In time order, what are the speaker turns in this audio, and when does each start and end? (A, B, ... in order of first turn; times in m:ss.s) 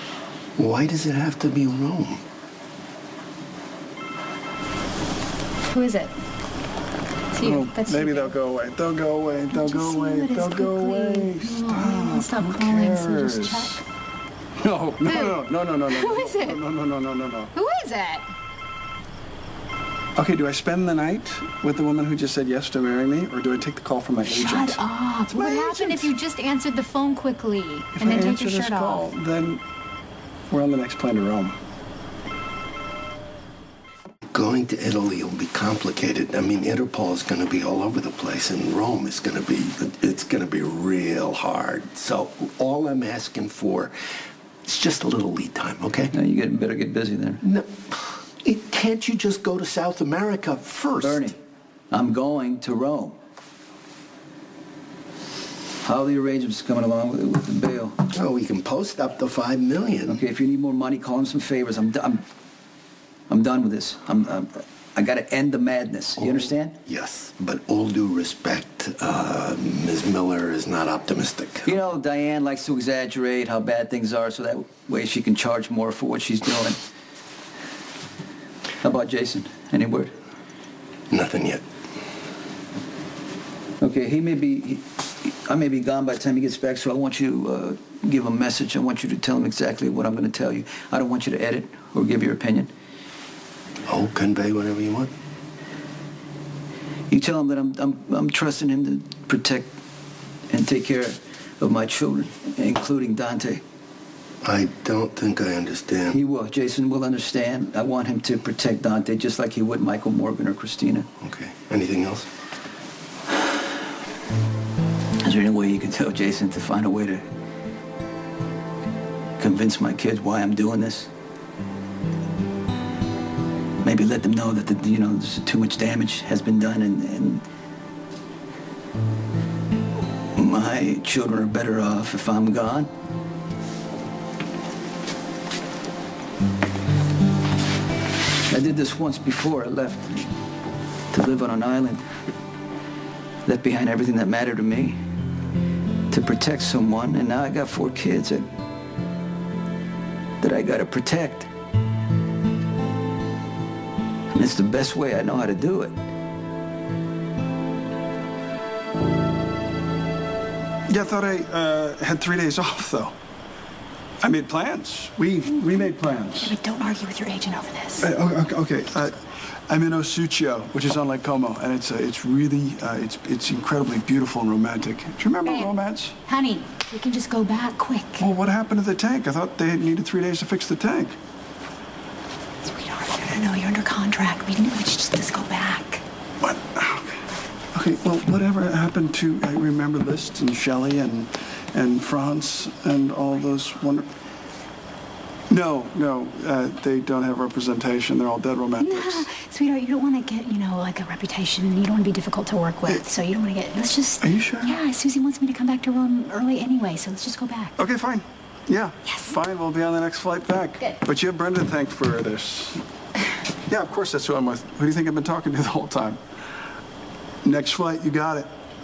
0:00.6-0:02.2 A
0:05.7-0:06.1 B
0:07.3-0:08.3 B
0:07.4-0:13.7 C
0:09.5-0:13.8 B
0:14.6-0:17.5 C
0:15.0-0:16.6 B
0:17.5-0:18.2 B
0:20.2-0:26.1 C
0:24.2-0:29.1 B
0:27.9-0:29.6 C
0:30.5-0:31.6 C
0:34.3-0:43.9 A
0:44.6-0:46.1 A
0:46.1-0:47.4 D
0:47.4-0:51.2 A
0:51.0-0:51.4 D
0:51.9-0:53.2 D
0:55.8-0:58.0 D
0:58.1-1:00.2 A
1:00.1-1:02.2 D
1:03.3-1:06.7 D
1:06.2-1:11.8 A
1:11.6-1:16.8 D
1:18.8-1:20.1 D
1:21.1-1:21.6 A
1:23.8-1:32.7 D
1:33.9-1:35.1 A
1:37.1-1:39.7 D
1:40.5-1:43.6 D
1:44.4-1:46.2 A
1:46.1-1:51.1 D
1:51.2-1:52.3 A
1:55.2-1:57.2 D
1:59.4-2:01.1 D
2:03.8-2:07.4 D
2:10.3-2:12.9 D
2:18.5-2:20.3 D
2:21.1-2:22.0 D
2:23.4-2:25.0 D
2:26.1-2:28.4 D
2:30.4-2:31.5 D
2:34.3-2:36.0 D
2:40.9-2:43.1 C
2:44.2-2:46.5 C
2:46.4-2:48.1 B
2:48.0-2:56.2 C
2:55.4-2:55.7 B
2:56.2-2:58.2 B
2:58.2-3:01.2 C
3:02.6-3:06.0 B
3:06.4-3:14.1 C
3:15.5-3:19.3 C
3:18.8-3:27.7 B
3:24.2-3:24.8 C
3:27.8-3:32.8 C
3:29.0-3:29.3 B
3:33.7-3:36.2 C
3:37.4-3:38.5 C